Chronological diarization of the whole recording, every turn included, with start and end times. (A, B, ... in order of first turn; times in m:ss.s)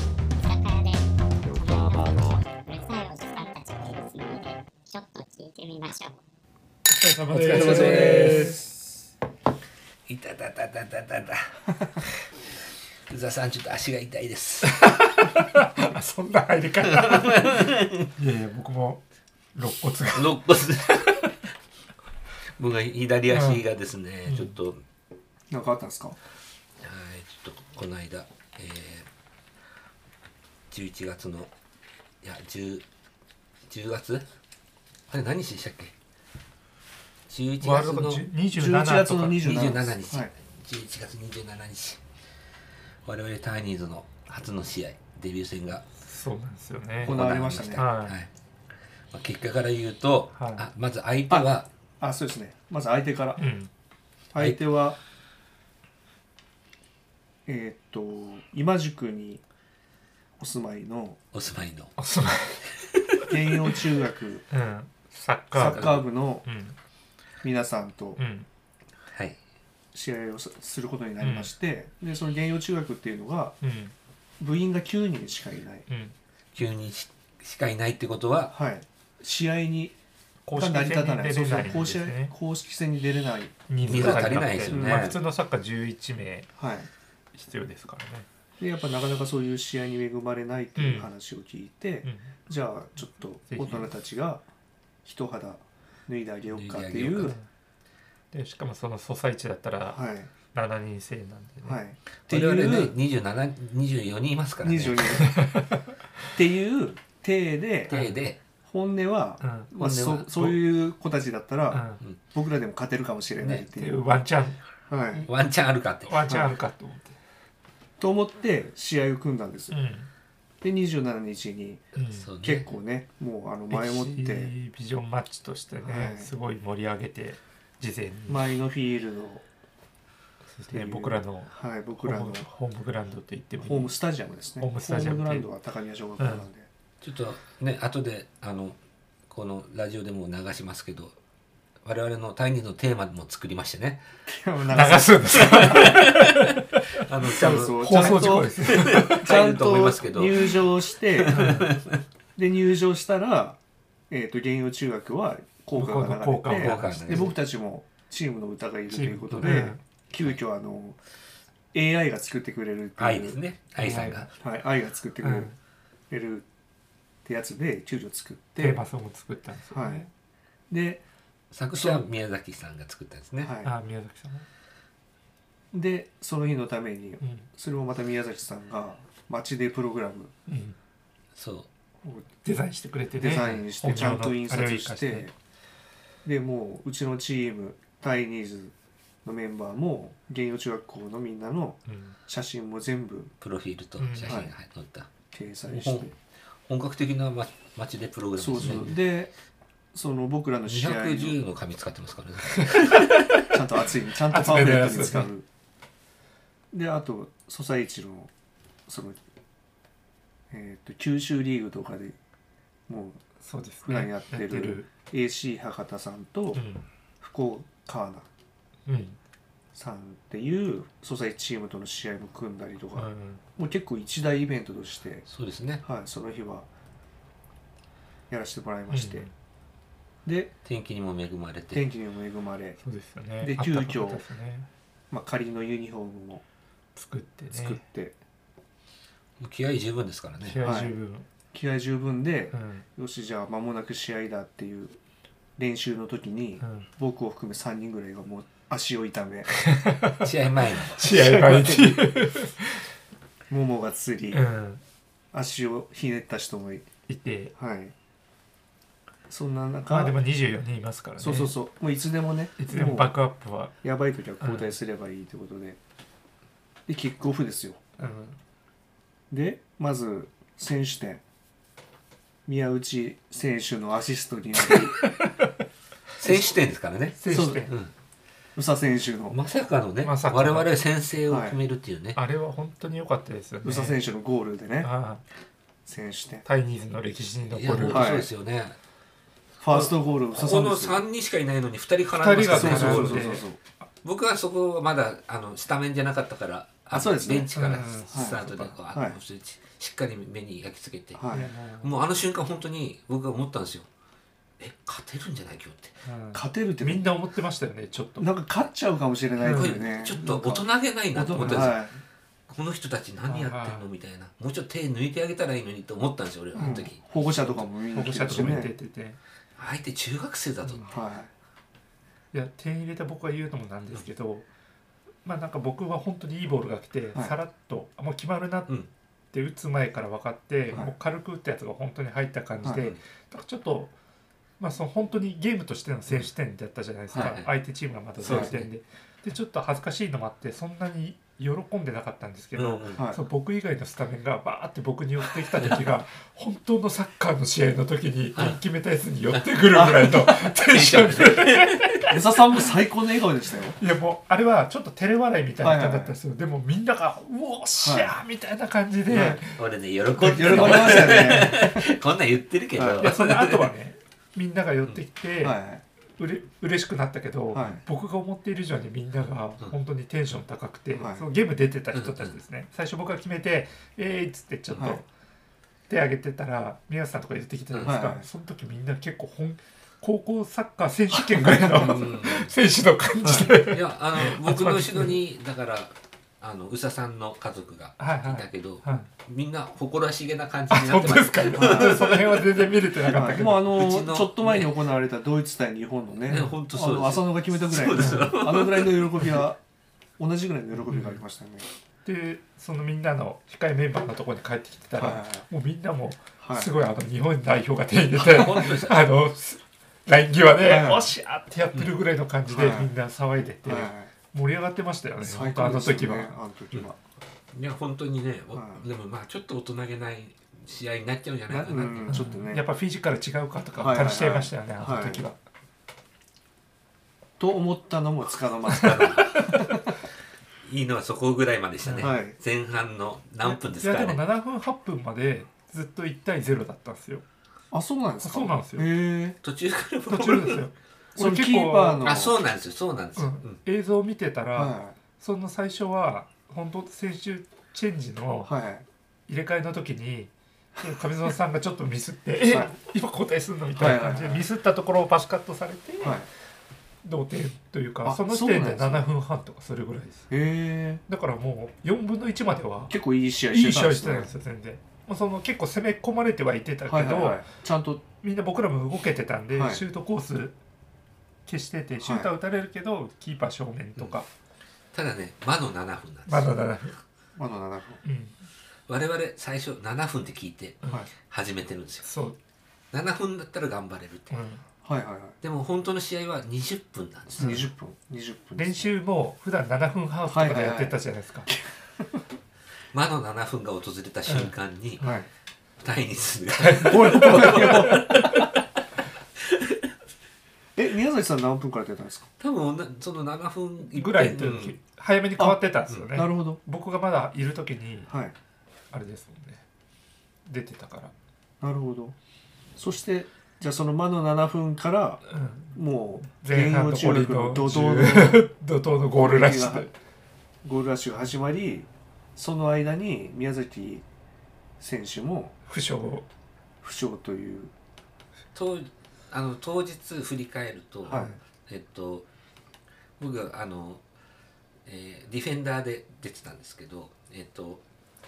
0:00.4-0:06.2 A
0:06.9-0:08.6 B
0:07.4-0:08.9 C
0:07.4-0:08.5 D
0:10.1-0:11.6 D
0:13.1-0:14.9 D
0:14.7-0:17.6 B
0:16.9-0:18.1 D
0:18.2-0:19.0 B
0:19.6-0:20.4 B
0:20.1-0:21.3 D
0:22.6-0:24.8 D
0:23.3-0:23.6 B
0:24.3-0:24.6 B
0:25.5-0:26.2 C
0:26.8-0:29.1 D
0:30.7-0:31.5 D
0:32.2-0:32.8 D
0:33.7-0:34.3 D
0:35.1-0:35.9 D
0:37.3-0:38.3 D
0:37.6-0:39.4 B
0:38.5-0:40.3 C
0:39.3-0:42.0 D
0:43.0-0:45.9 D
0:46.0-0:48.2 B
0:47.0-0:48.3 D
0:47.0-0:47.9 C
0:49.1-0:51.7 D
0:50.4-0:50.7 B
0:51.3-0:53.5 C
0:53.4-0:53.7 B
0:54.3-0:55.0 C
0:57.5-0:59.4 C
1:00.4-1:01.2 C
1:01.3-1:01.9 D
1:02.0-1:02.6 B
1:02.8-1:03.3 D
1:03.3-1:04.4 C
1:04.5-1:05.9 B
1:05.5-1:06.4 C
1:05.6-1:06.1 D
1:06.4-1:06.8 B
1:07.4-1:08.2 C
1:08.2-1:08.5 B
1:09.1-1:09.4 D
1:09.9-1:13.6 C
1:11.2-1:11.5 B
1:13.6-1:13.9 B
1:14.4-1:15.9 C
1:15.9-1:16.1 B
1:16.6-1:18.5 D
1:18.5-1:20.0 C
1:20.5-1:22.3 B
1:20.6-1:25.0 C
1:23.7-1:26.5 B
1:23.9-1:25.2 D
1:26.6-1:26.9 C
1:27.3-1:28.3 B
1:28.6-1:34.4 C
1:30.8-1:31.1 B
1:32.0-1:32.3 B
1:33.5-1:33.9 B
1:35.0-1:37.4 C
1:36.5-1:37.4 D
1:37.2-1:37.5 B
1:38.3-1:41.8 B
1:39.9-1:40.3 C
1:41.6-1:43.0 C
1:42.3-1:45.2 D
1:44.6-1:45.4 C
1:45.2-1:45.9 B
1:46.4-1:47.9 C
1:47.9-1:48.4 D
1:47.9-1:48.2 B
1:48.6-1:54.0 C
1:49.4-1:49.7 B
1:49.7-1:50.6 D
1:51.7-1:52.0 B
1:53.4-1:54.6 B
1:54.9-1:55.3 C
1:55.3-1:56.2 D
1:56.1-1:57.2 B
1:56.3-1:56.6 C
1:58.0-1:59.7 C
1:59.7-2:00.1 B
2:00.6-2:01.8 C
2:02.0-2:02.3 B
2:02.1-2:02.7 D
2:02.4-2:04.5 C
2:03.7-2:08.5 B
2:05.8-2:06.3 C
2:08.3-2:09.4 C
2:10.5-2:14.0 B
2:10.7-2:12.5 C
2:13.6-2:16.7 C
2:14.6-2:15.5 B
2:16.2-2:16.4 B
2:17.0-2:18.8 D
2:19.3-2:21.2 D
2:21.8-2:24.0 D
2:24.3-2:25.9 C
2:24.7-2:26.8 B
2:25.3-2:32.0 D
2:27.3-2:31.6 C
2:27.8-2:29.3 B
2:31.3-2:31.7 B
2:32.4-2:33.6 C
2:34.1-2:41.0 C
2:35.8-2:37.4 B
2:36.4-2:37.4 D
2:38.9-2:39.8 B
2:41.7-2:43.4 C
2:43.0-2:44.3 D
2:43.8-2:44.3 B
2:44.4-2:45.5 C
2:45.2-2:45.6 B
2:46.1-2:46.5 C
2:47.2-2:48.8 C
2:48.6-2:50.1 B
2:49.7-2:50.1 C
2:50.7-2:51.0 C
2:51.5-2:53.5 D
2:51.7-2:52.0 C
2:53.4-2:53.7 C
2:53.6-2:54.5 B
2:55.7-3:00.3 C
2:57.2-2:57.5 B
3:00.5-3:00.8 B
3:01.4-3:01.7 D
3:02.4-3:05.3 B
3:03.2-3:05.3 C
3:06.2-3:08.7 C
3:09.2-3:13.3 C
3:11.9-3:12.2 B
3:13.4-3:15.1 D
3:14.0-3:14.4 B
3:14.3-3:14.5 C
3:15.3-3:16.1 C
3:15.7-3:16.1 D
3:16.7-3:18.9 D
3:18.4-3:19.3 C
3:18.6-3:19.0 B
3:19.9-3:21.4 C
3:20.7-3:23.2 D
3:22.7-3:23.5 B
3:23.4-3:25.5 C
3:24.3-3:25.3 B
3:26.7-3:28.3 C
3:28.9-3:29.2 C
3:30.5-3:32.2 C
3:32.9-3:33.2 C
3:33.4-3:34.9 B
3:33.8-3:36.6 C
3:36.5-3:36.8 B
3:37.2-3:38.3 C
3:38.9-3:39.2 B
3:39.7-3:45.2 C
3:43.0-3:43.4 B
3:45.3-3:45.8 D
3:45.8-3:46.7 C
3:48.3-3:49.3 C
3:48.9-3:49.3 B
3:50.2-3:50.5 C
3:50.6-3:51.8 D
3:51.7-3:52.8 C
3:52.8-3:54.7 B
3:53.4-3:54.2 C
3:55.1-3:56.4 C
3:57.0-3:57.8 B
3:57.5-3:58.2 C
3:59.4-4:00.6 D
4:00.4-4:01.3 B
4:00.6-4:00.9 C
4:01.5-4:05.0 C
4:02.5-4:02.8 B
4:05.6-4:09.5 C
4:06.6-4:06.9 B
4:09.6-4:10.3 B
4:10.2-4:11.0 D
4:10.9-4:12.8 B
4:11.0-4:12.1 C
4:13.5-4:14.4 C
4:14.3-4:14.8 B
4:15.3-4:16.9 C
4:17.1-4:17.5 B
4:17.6-4:18.0 C
4:19.3-4:20.2 C
4:19.9-4:21.6 B
4:21.2-4:23.1 C
4:22.6-4:23.7 B
4:23.8-4:25.8 C
4:24.4-4:24.7 B
4:26.9-4:27.8 C
4:28.0-4:28.4 B
4:29.3-4:31.2 C
4:32.5-4:35.0 C
4:34.6-4:35.5 B
4:36.2-4:37.9 D
4:37.2-4:37.7 B
4:37.3-4:37.6 C
4:38.6-4:39.4 C
4:39.3-4:42.2 D
4:40.0-4:40.7 B
4:41.3-4:41.6 C
4:42.2-4:44.0 B
4:43.6-4:44.9 C
4:44.8-4:45.2 B
4:45.9-4:46.4 C
4:46.4-4:48.2 B
4:47.5-4:48.8 D
4:47.9-4:48.3 C
4:49.6-4:51.0 C
4:49.7-4:53.4 D
4:52.2-4:53.4 B
4:52.4-4:53.6 C
4:54.0-5:03.9 D
4:56.9-4:59.2 C
4:57.6-4:58.7 B
5:01.2-5:01.5 C
5:01.3-5:01.9 B
5:04.6-5:06.0 D
5:06.1-5:08.3 B
5:06.3-5:07.1 C
5:08.2-5:12.0 C
5:09.4-5:11.8 D
5:09.4-5:09.8 B
5:11.4-5:11.7 B
5:12.5-5:17.7 D
5:13.3-5:13.8 B
5:16.6-5:18.7 C
5:16.6-5:16.8 B
5:17.9-5:19.2 B
5:19.6-5:20.9 D
5:20.7-5:20.9 B
5:20.9-5:21.3 C
5:22.3-5:24.5 B
5:25.2-5:28.7 B
5:29.3-5:33.9 B
5:32.6-5:33.0 D
5:34.6-5:52.1 B
5:37.2-5:37.5 D
5:38.2-5:38.5 C
5:38.2-5:38.7 D
5:42.6-5:43.1 D
5:43.0-5:43.2 C
5:45.5-5:45.8 D
5:49.3-5:52.2 D
5:49.7-5:50.1 C
5:52.1-5:53.8 C
5:53.8-5:59.6 B
5:55.6-5:56.2 C
5:57.8-5:58.1 C
5:59.1-5:59.4 C
5:59.5-6:03.7 D
6:00.2-6:01.5 B
6:00.2-6:01.8 C
6:02.8-6:03.1 C
6:03.0-6:05.6 B
6:05.4-6:05.8 C
6:06.2-6:15.1 B
6:07.5-6:07.8 C
6:11.0-6:11.3 C
6:11.9-6:12.4 D
6:15.9-6:25.2 B
6:17.8-6:18.3 C
6:21.3-6:22.0 C
6:21.4-6:22.5 D
6:23.2-6:23.6 C
6:23.3-6:32.5 D
6:28.0-6:29.1 B
6:30.7-6:33.6 B
6:31.6-6:32.1 C
6:33.1-6:39.6 C
6:33.2-6:34.8 D
6:36.3-6:39.2 D
6:38.0-6:38.4 B
6:40.2-6:41.7 C
6:40.9-6:41.2 B
6:42.0-6:56.3 B
6:45.0-6:45.5 C
6:46.4-6:46.7 C
6:48.1-6:49.1 D
6:50.6-6:51.1 C
6:52.5-6:52.9 C
6:53.6-6:54.1 C
6:55.2-6:57.0 C
6:57.5-7:02.2 D
6:58.5-6:58.8 C
7:01.5-7:02.6 C
7:02.1-7:05.4 B
7:03.8-7:05.3 C
7:07.4-7:09.8 C
7:08.7-7:09.7 D
7:09.2-7:09.6 B
7:10.6-7:14.2 D
7:11.8-7:12.1 B
7:12.0-7:12.4 C
7:13.4-7:17.2 B
7:17.7-7:19.4 C
7:18.2-7:18.9 B
7:19.4-7:20.7 D
7:20.1-7:22.1 B
7:21.2-7:22.4 C
7:22.0-7:23.6 D
7:23.2-7:28.5 B
7:24.5-7:25.0 C
7:28.5-7:28.8 C
7:29.3-7:36.2 B
7:33.8-7:34.4 C
7:36.0-7:36.3 C
7:37.0-7:40.3 B
7:38.0-7:39.1 C
7:40.3-7:41.0 C
7:41.1-7:43.0 B
7:42.9-7:44.3 C
7:43.5-7:47.4 B
7:46.9-7:48.0 C
7:48.2-7:50.6 B
7:49.5-7:49.8 C
7:51.5-7:54.3 B
7:52.0-7:52.3 C
7:54.9-7:56.6 D
7:56.3-7:57.0 B
7:57.4-7:58.0 C
7:58.0-7:58.4 B
7:58.9-8:02.1 D
8:02.0-8:02.4 B
8:02.9-8:04.4 D
8:04.3-8:04.6 B
8:04.8-8:05.4 C
8:05.4-8:07.6 D
8:07.4-8:08.9 C
8:07.4-8:07.7 B
8:08.6-8:11.5 B
8:10.3-8:12.2 C
8:12.9-8:15.0 D
8:14.3-8:15.2 B
8:15.0-8:15.3 C
8:15.8-8:18.6 D
8:16.7-8:18.4 B
8:16.8-8:18.4 C
8:19.4-8:19.8 D
8:20.8-8:22.3 C
8:22.4-8:24.8 D
8:23.9-8:28.1 B
8:25.4-8:26.6 C
8:28.1-8:28.4 C
8:28.9-8:29.6 B
8:30.5-8:31.1 B
8:31.6-8:32.2 C
8:32.8-8:35.2 C
8:35.3-8:39.9 B
8:35.7-8:38.4 C
8:39.2-8:39.9 C
8:40.6-8:44.0 C
8:44.8-8:45.6 C
8:45.7-8:46.3 B
8:46.8-8:47.7 C
8:48.5-8:52.3 D
8:51.1-8:51.4 C
8:53.2-8:54.0 D
8:54.9-8:57.8 D